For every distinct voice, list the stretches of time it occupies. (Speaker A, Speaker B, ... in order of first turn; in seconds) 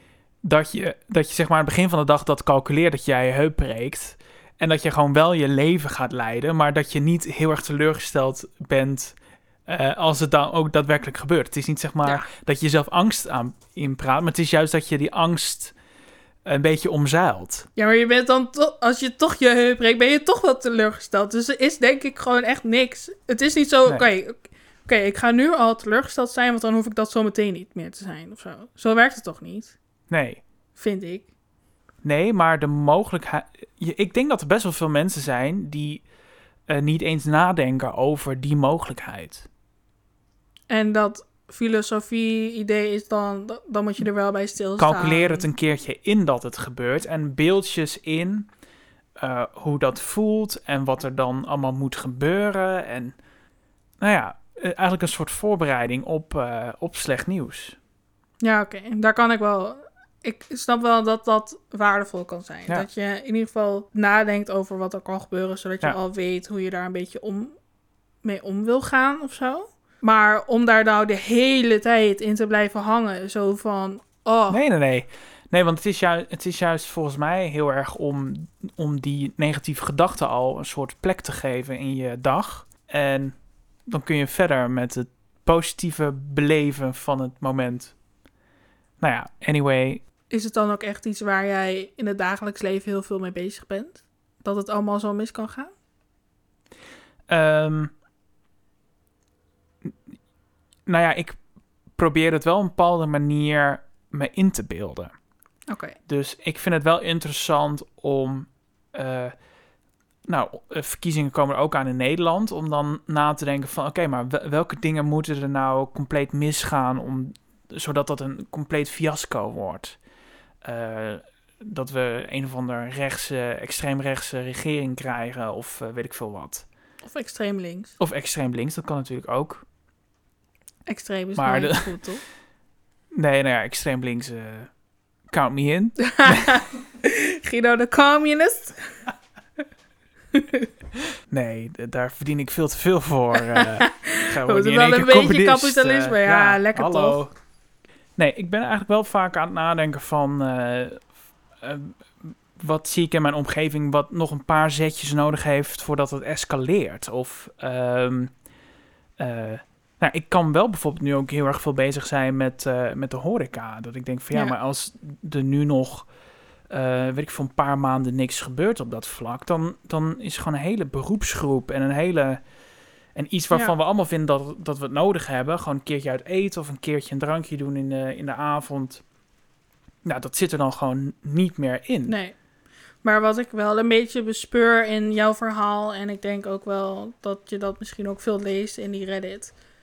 Speaker A: 0.4-9.1, 9.7-15.8, 16.5-17.7, 30.1-30.4, 32.0-36.0, 36.7-39.5, 44.8-48.5, 49.2-53.1, 54.0-57.8, 74.5-88.0, 89.0-90.0, 97.3-97.9, 100.9-101.4, 102.0-105.1, 106.1-109.3, 110.3-120.0, 120.6-126.7, 128.0-129.6, 131.4-131.9, 133.1-134.7, 135.3-136.6, 141.3-147.3, 148.2-151.1, 151.6-158.3, 159.2-166.1, 166.7-172.4, 173.1-179.0, 180.0-182.2
Speaker B: 17.8-29.8, 30.8-31.3, 40.7-45.5, 58.4-67.5, 68.2-74.6, 90.3-95.7, 105.7-106.0, 127.0-128.0, 130.9-132.2, 136.0-138.9, 140.3-140.7, 143.4-147.2, 182.1-182.3, 183.0-189.5